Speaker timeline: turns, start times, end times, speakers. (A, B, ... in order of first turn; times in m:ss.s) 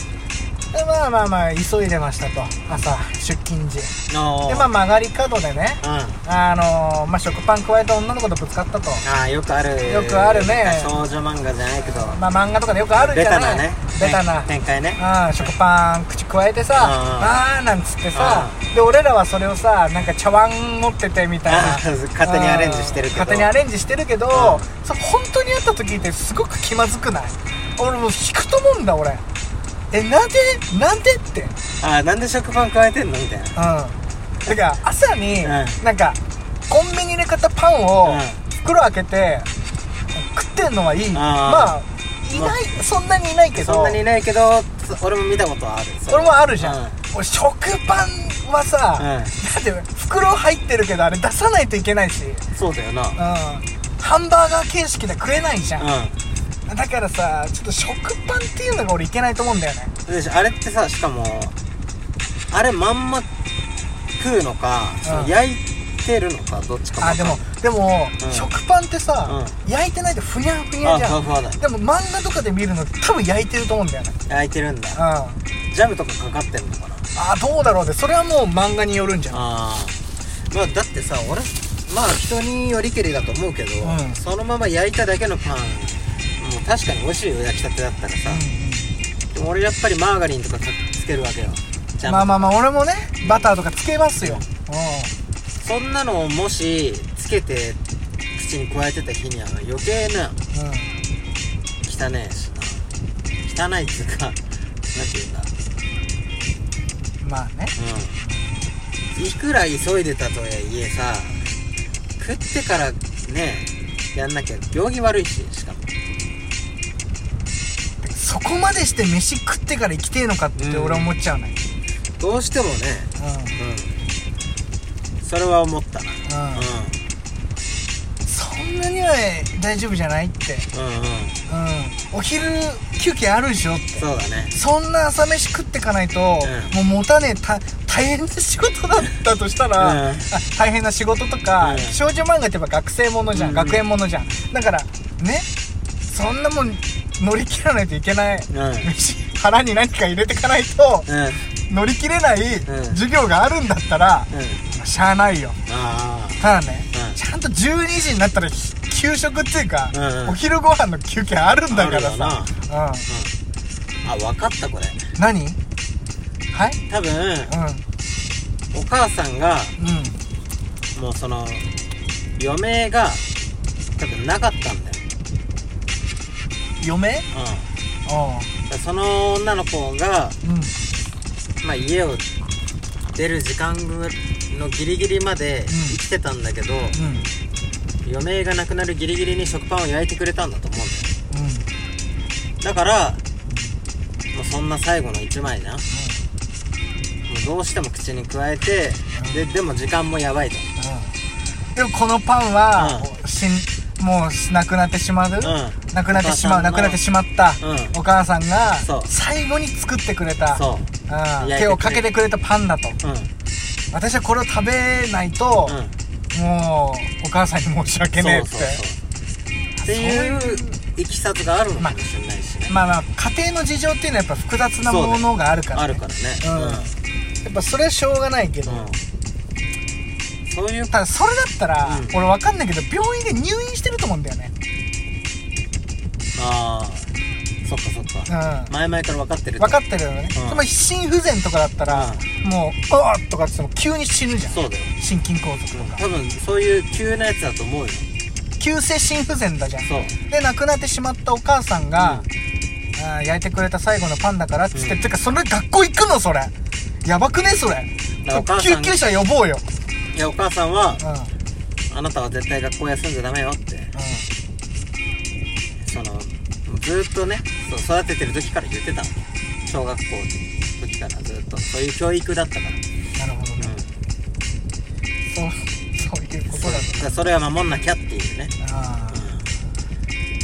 0:00.7-0:04.0 A
0:04.1-0:04.7 B
0:04.5-0:09.0 A
0:05.8-0:06.2 B
0:09.0-0:12.2 B
0:09.8-0:11.0 A
0:11.8-0:29.2 A
0:12.9-0:15.5 B
0:16.7-0:17.4 B
0:18.1-0:18.6 B
0:21.5-0:23.5 B
0:24.3-0:24.7 B
0:29.9-0:31.5 A
0:31.8-0:33.6 B
0:33.6-0:39.5 A
0:35.4-0:35.8 B
0:38.0-0:38.4 B
0:40.1-0:44.0 A
0:41.1-0:41.8 B
0:43.6-0:47.0 B
0:46.1-0:52.4 A
0:49.0-0:49.4 B
0:52.5-0:53.2 B
0:53.2-0:55.8 A
0:55.8-0:56.2 B
0:56.7-0:59.9 A
1:00.0-1:01.5 B
1:02.5-1:03.3 B
1:04.2-1:07.4 B
1:05.0-1:05.3 A
1:07.0-1:14.2 A
1:08.2-1:08.5 B
1:09.2-1:09.6 B
1:10.8-1:11.6 B
1:14.3-1:15.0 B
1:14.9-1:15.4 A
1:15.7-1:17.1 B
1:17.1-1:19.4 A
1:19.3-1:20.0 B
1:20.5-1:28.4 B
1:23.8-1:24.2 A
1:28.2-1:28.9 A
1:29.3-1:32.5 B
1:32.0-1:35.1 A
1:33.2-1:33.5 B
1:35.6-1:37.8 B
1:38.3-1:40.4 B
1:40.5-1:41.0 A
1:41.8-1:42.8 B
1:43.4-1:44.4 B
1:44.9-1:45.5 B
1:47.2-1:48.6 A
1:47.8-1:48.2 B
1:49.1-1:51.4 B
1:52.2-1:55.9 B
1:58.0-2:01.6 A
2:00.6-2:01.1 B
2:02.2-2:03.9 B
2:03.2-2:03.6 A
2:05.2-2:07.0 B
2:06.2-2:06.7 A
2:08.2-2:10.7 A
2:10.7-2:11.4 B
2:11.5-2:25.5 A
2:13.9-2:14.5 B
2:16.4-2:16.8 B
2:19.8-2:20.3 B
2:21.6-2:22.0 B
2:23.3-2:23.8 B
2:26.1-2:31.1 A
2:28.5-2:28.9 B
2:31.1-2:31.5 B
2:31.7-2:35.6 A
2:32.7-2:33.0 B
2:34.3-2:34.6 B
2:35.7-2:37.2 B
2:36.4-2:43.1 A
2:39.9-2:40.4 B
2:41.7-2:42.5 B
2:43.1-2:43.3 B
2:44.0-2:45.1 B
2:45.2-2:45.6 A
2:46.5-2:46.8 A
2:46.9-2:47.6 B
2:47.5-2:47.8 A
2:48.7-2:49.8 B
2:49.8-2:50.2 A
2:50.9-2:51.6 B
2:52.4-2:53.2 B
2:54.0-2:55.0 B
2:56.8-2:57.2 A
2:57.3-2:57.7 B
2:58.0-2:58.5 A
2:58.7-3:00.4 B
3:00.4-3:00.7 A
3:01.6-3:02.3 B
3:03.1-3:07.0 B
3:05.7-3:06.0 A
3:06.9-3:07.3 A
3:08.0-3:11.1 B
3:11.3-3:11.7 A
3:12.6-3:13.2 B
3:13.5-3:13.8 A
3:14.3-3:15.8 B
3:15.9-3:16.2 A
3:17.2-3:20.7 B
3:19.1-3:19.4 A
3:20.8-3:21.1 A
3:21.7-3:33.0 A
3:22.7-3:23.1 B
3:25.4-3:27.0 B
3:27.6-3:28.0 B
3:28.8-3:29.1 B
3:30.5-3:32.0 B
3:33.0-3:33.3 B
3:33.9-3:35.8 A
3:35.6-3:35.9 B
3:36.3-3:38.8 A
3:38.1-3:39.0 B
3:39.8-3:40.8 A
3:39.8-3:42.7 B
3:42.7-3:48.9 A
3:44.8-3:47.0 B
3:48.6-3:49.0 B
3:50.5-3:50.9 B
3:50.9-3:54.5 A
3:51.8-3:52.2 B
3:56.3-3:57.1 B
3:57.6-3:59.8 B
3:58.3-3:58.7 A
3:59.6-4:06.0 A
4:00.3-4:00.6 B
4:01.9-4:02.2 B
4:04.5-4:04.9 B
4:05.7-4:08.0 B
4:08.6-4:12.2 A
4:09.8-4:10.2 B
4:12.0-4:12.3 B
4:12.9-4:16.5 A
4:14.7-4:15.0 B
4:17.0-4:19.6 A
4:18.2-4:19.0 B
4:20.1-4:21.0 B
4:21.0-4:21.3 A
4:21.9-4:23.9 B
4:23.9-4:24.3 A
4:25.8-4:32.8 B
4:33.2-4:33.7 A
4:33.6-4:33.9 B
4:35.2-4:37.2 A
4:36.5-4:38.5 B
4:38.6-4:39.3 A
4:39.1-4:39.4 B